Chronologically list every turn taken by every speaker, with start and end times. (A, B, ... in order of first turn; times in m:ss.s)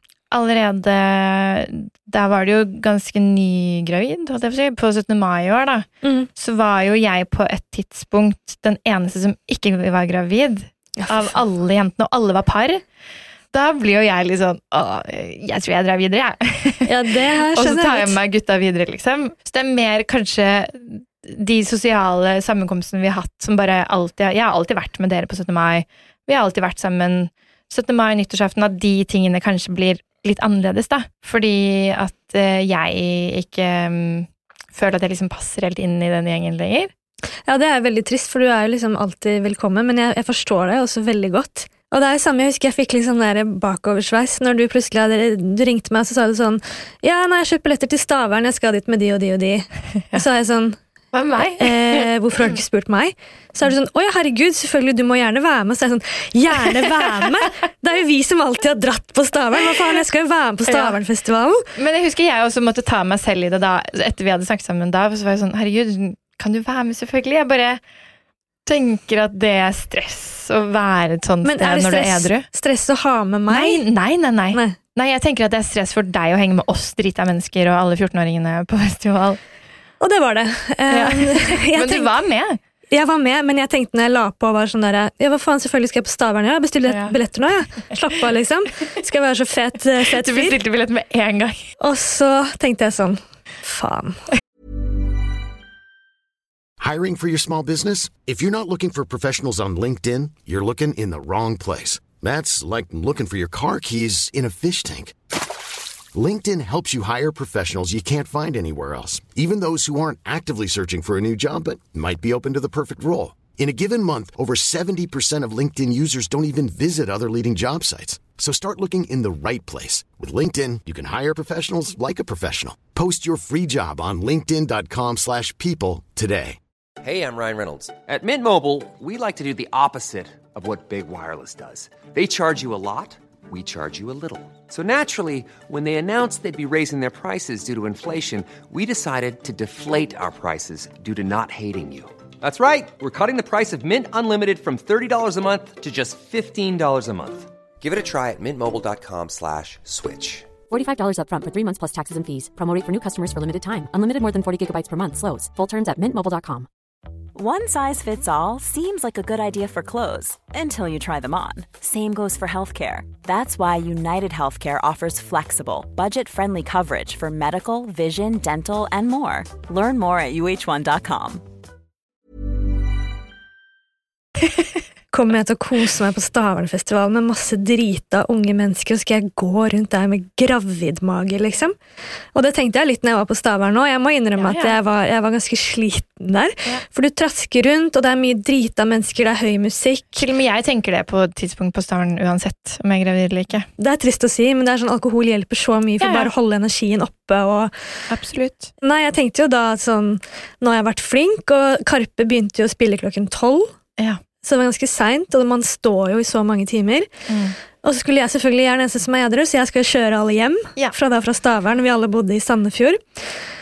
0:00.3-0:12.8 A
0:06.0-0:06.3 B
0:13.5-0:16.9 A
0:16.9-0:18.2 B
0:17.5-0:36.9 A
0:37.5-0:50.8 B
0:51.1-0:52.1 A
0:51.6-1:01.6 B
1:00.7-1:01.0 A
1:01.8-1:07.8 A
1:08.7-1:12.5 A
1:11.4-1:13.8 B
1:13.5-1:19.4 A
1:20.0-1:22.1 B
1:20.9-1:22.6 A
1:22.9-1:30.6 B
1:26.9-1:27.2 A
1:30.2-1:31.7 A
1:31.8-1:34.2 B
1:36.8-1:45.2 C
1:46.1-2:06.6 C
2:07.0-2:30.5 D
2:30.7-2:36.7 E
2:37.3-2:51.4 F
2:55.1-3:01.8 B
3:02.3-3:10.2 B
3:04.4-3:04.8 A
3:10.2-3:13.7 A
3:13.8-3:17.7 B
3:16.0-3:16.3 A
3:18.1-3:18.7 A
3:18.8-3:23.7 B
3:24.4-3:27.1 B
3:27.3-3:27.6 A
3:27.8-3:33.3 B